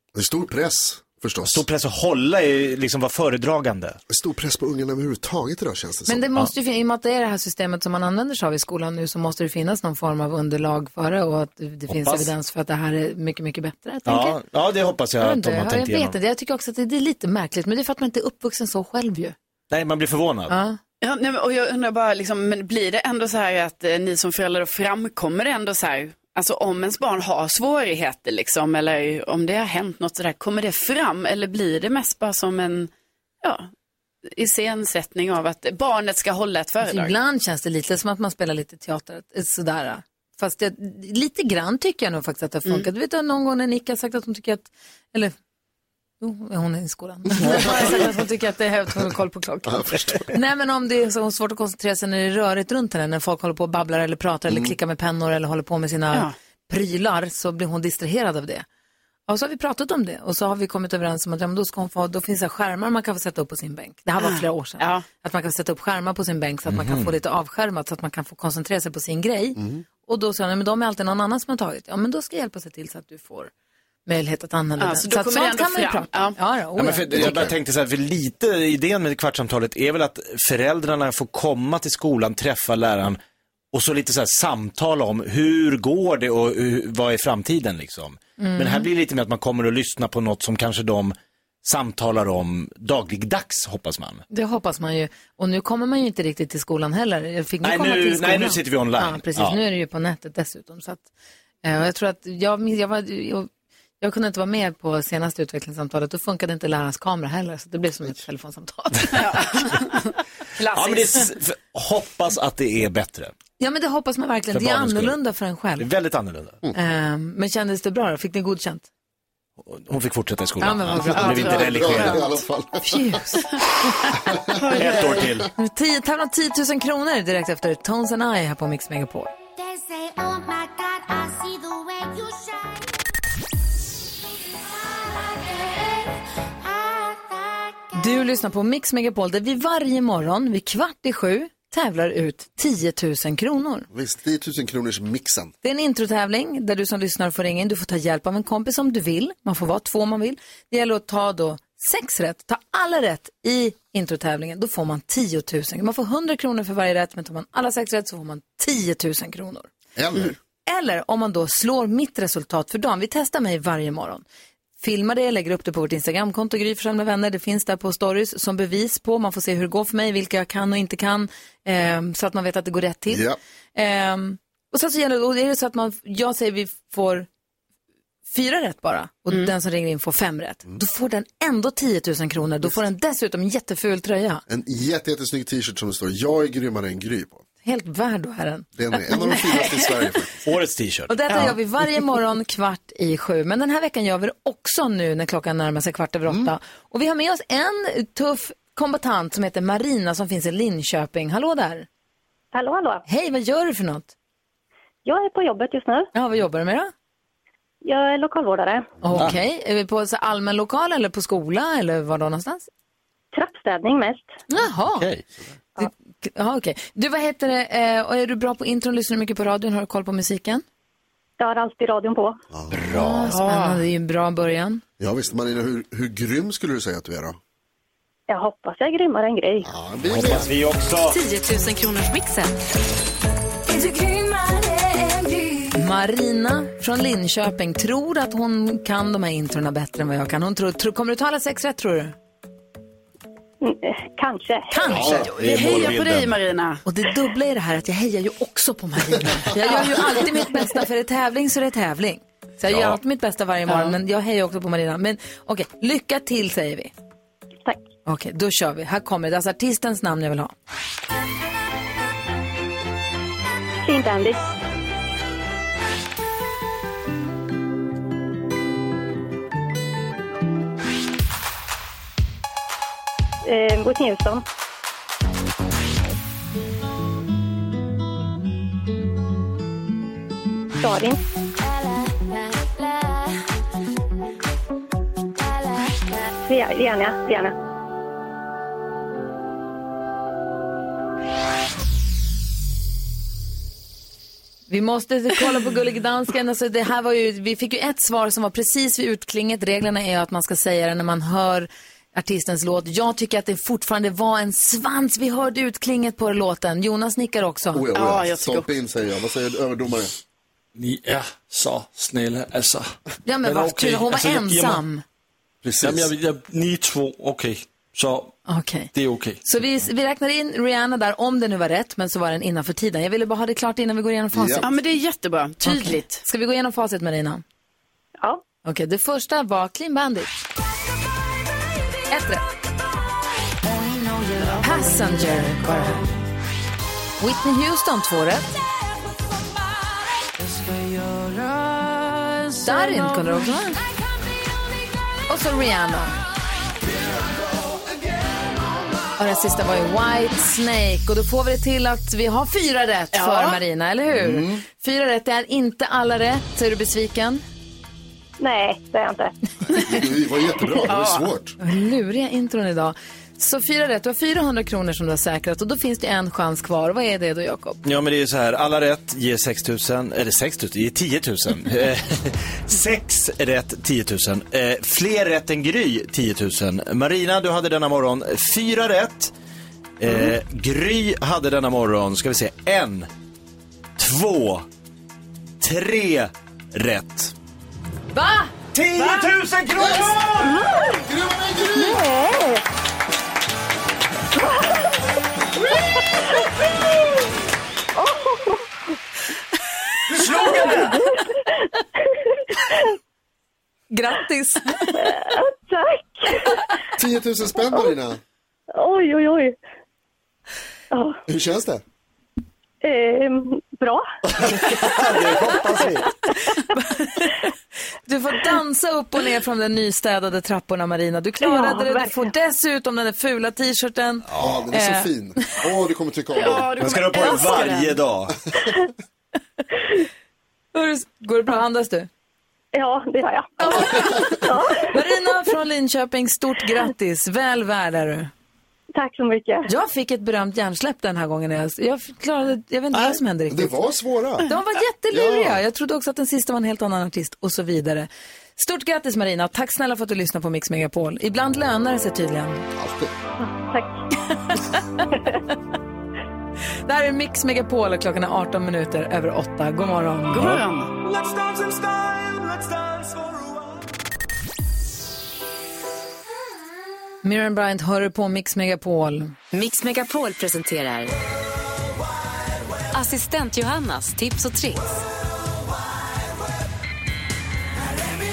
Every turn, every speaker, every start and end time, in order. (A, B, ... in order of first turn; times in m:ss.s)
0:00.1-0:01.6 A
0:01.5-0:04.0 B
0:04.1-0:06.2 A
0:06.1-0:14.4 C
0:11.9-0:12.3 B
0:14.1-0:16.2 B
0:15.2-0:19.4 C
0:19.7-0:20.5 B
0:20.5-0:20.8 C
0:21.0-0:32.9 D
0:33.4-0:33.7 D
0:34.3-0:37.1 D
0:36.8-0:45.3 C
0:46.2-0:58.6 C
0:47.4-0:47.9 A
0:49.7-0:50.2 A
0:54.5-0:54.7 A
0:59.3-1:13.5 C
1:04.2-1:05.0 D
1:06.7-1:07.1 B
1:09.6-1:09.8 A
1:14.0-1:17.4 C
1:14.8-1:16.4 D
1:16.8-1:23.2 B
1:17.1-1:17.5 A
1:23.7-1:34.2 B
1:28.4-1:28.9 C
1:34.3-1:41.0 C
1:37.6-1:39.6 B
1:41.6-1:43.5 C
1:44.0-1:49.5 C
1:49.1-1:51.3 D
1:50.7-1:53.3 B
1:53.6-1:55.9 C
1:54.5-1:55.2 B
1:55.8-1:56.6 B
1:56.7-1:58.9 C
1:59.6-2:02.4 B
2:00.6-2:02.2 C
2:01.2-2:02.0 D
2:01.3-2:03.2 A
2:02.8-2:03.6 C
2:04.6-2:05.2 D
2:04.8-2:05.5 B
2:05.6-2:09.3 C
2:17.9-2:23.9 C
2:23.9-2:25.5 A
2:25.6-2:39.7 C
2:40.0-2:40.3 A
2:40.6-2:44.2 C
2:44.8-2:57.3 C
2:53.1-2:53.4 A
2:58.3-3:04.4 C
3:04.5-3:07.4 A
3:07.6-3:09.4 C
3:08.8-3:10.4 A
3:09.5-3:09.8 D
3:10.4-3:11.6 B
3:11.1-3:21.9 C
3:22.5-3:23.0 E
3:23.1-3:24.1 C
3:25.0-3:26.1 E
3:26.1-3:26.9 C
3:27.8-3:28.9 E
3:29.0-3:32.7 C
3:33.3-3:34.3 E
3:34.5-3:35.1 C
3:34.9-3:35.2 B
3:35.8-3:40.6 C
3:41.4-3:42.4 E
3:42.7-3:43.4 B
3:42.9-3:44.8 C
3:43.3-3:43.8 D
3:45.0-3:47.4 A
3:48.3-3:49.7 E
3:49.6-3:50.5 A
3:50.0-3:51.2 B
3:51.1-3:52.6 F
3:54.1-3:55.6 F
3:55.7-4:02.1 C
4:03.6-4:04.8 E
4:04.7-4:05.3 C
4:04.9-4:06.4 B
4:05.3-4:06.8 D
4:06.8-4:16.9 C
4:12.7-4:13.0 B
4:18.0-4:20.5 C
4:23.8-4:24.4 E
4:33.4-4:34.4 E
4:40.8-4:41.2 E
4:46.4-4:47.5 E
4:54.7-5:07.8 C
5:07.7-5:10.1 A
5:07.9-5:08.7 D
5:10.8-5:14.8 G
5:13.2-5:15.0 C
5:15.6-5:16.1 A
5:15.8-5:18.4 G
5:18.5-5:18.9 C
5:18.9-5:19.4 G
5:19.4-5:24.7 C
5:24.3-5:24.7 A
5:24.6-5:26.2 D
5:25.6-5:27.4 C
5:28.6-5:30.4 C
5:32.1-5:32.4 C
5:34.6-5:36.1 C
5:37.2-5:38.6 C
5:42.6-5:43.8 C
5:45.3-5:46.1 C
5:49.2-5:57.4 C
5:53.1-5:53.6 D
5:54.1-5:54.6 A
5:58.4-5:59.3 E
5:59.7-6:01.6 A
6:00.8-6:01.3 D
6:01.6-6:07.8 C
6:07.8-6:19.3 B
6:20.0-6:23.1 B
6:24.0-6:24.6 B
6:25.6-6:27.3 B
6:28.1-6:29.2 C
6:28.7-6:30.6 B
6:29.8-6:30.1 A
6:30.7-6:30.9 E
6:30.8-6:32.0 A
6:31.7-6:32.6 E
6:38.0-6:38.6 E
6:40.1-6:41.1 B
6:40.4-6:41.0 E
6:43.9-6:45.2 C
6:45.0-6:46.6 E
6:47.0-6:48.2 A
6:48.7-6:49.6 E
6:50.9-6:51.2 E
6:51.3-6:51.8 A
6:52.8-6:54.1 E
6:54.3-6:56.1 B
6:55.1-6:55.9 E
6:56.4-6:57.5 C
6:58.0-7:05.6 C
7:01.4-7:02.3 E
7:04.3-7:04.6 B
7:04.4-7:06.8 A
7:06.4-7:08.0 D
7:06.8-7:08.4 B
7:10.7-7:12.1 C
7:12.7-7:14.8 E
7:13.6-7:14.3 C
7:14.9-7:18.3 C
7:18.9-7:19.7 E
7:19.7-7:23.8 C
7:23.0-7:24.5 A
7:24.4-7:32.6 C
7:25.1-7:25.6 A
7:32.8-7:33.1 A
7:33.4-7:34.0 E
7:34.5-7:35.2 C
7:36.9-7:40.6 C
7:40.3-7:40.9 D
7:47.2-7:49.4 C
7:49.5-7:51.1 F
7:52.9-7:55.0 F